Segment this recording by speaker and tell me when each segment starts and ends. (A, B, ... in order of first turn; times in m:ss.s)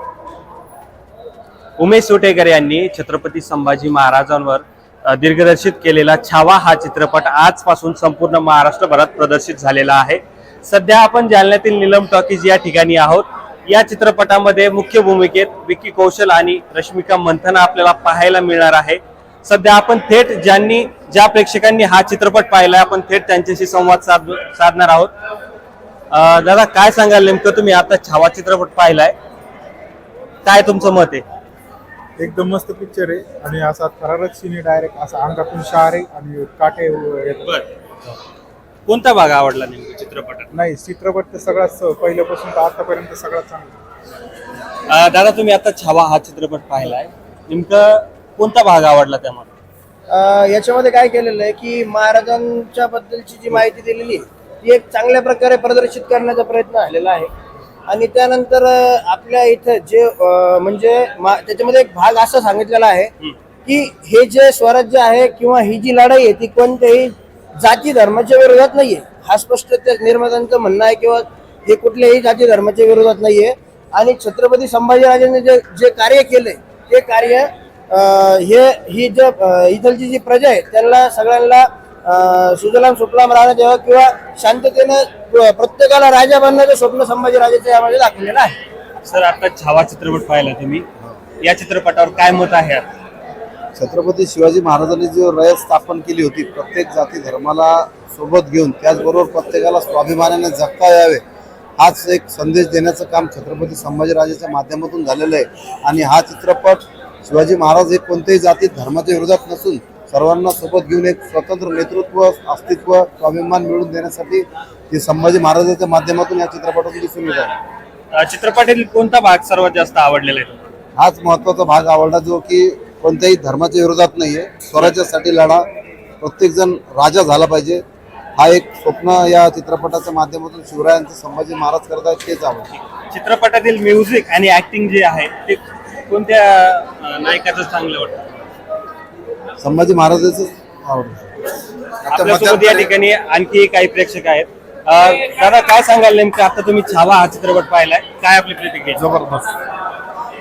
0:01.8-0:25.1 A
0:26.1-0:29.1 A
0:30.4-0:31.2 A
0:32.2-0:37.4 B
0:37.4-0:37.7 A
0:38.9-0:40.5 A
0:40.6-0:43.8 B
0:44.9-0:49.5 A
0:50.1-0:57.3 C
0:57.9-1:03.1 C
1:03.7-1:28.6 C
1:29.0-1:30.9 A
1:31.4-1:32.9 A
1:33.8-1:41.2 D
1:41.8-1:57.5 D
1:58.1-2:00.7 A
2:01.0-2:05.6 D
2:06.2-2:07.8 D
2:08.4-2:12.7 D
2:12.8-2:18.3 A
2:19.6-2:21.3 D
2:22.0-2:22.9 D
2:22.1-2:29.0 A
2:29.0-2:29.5 D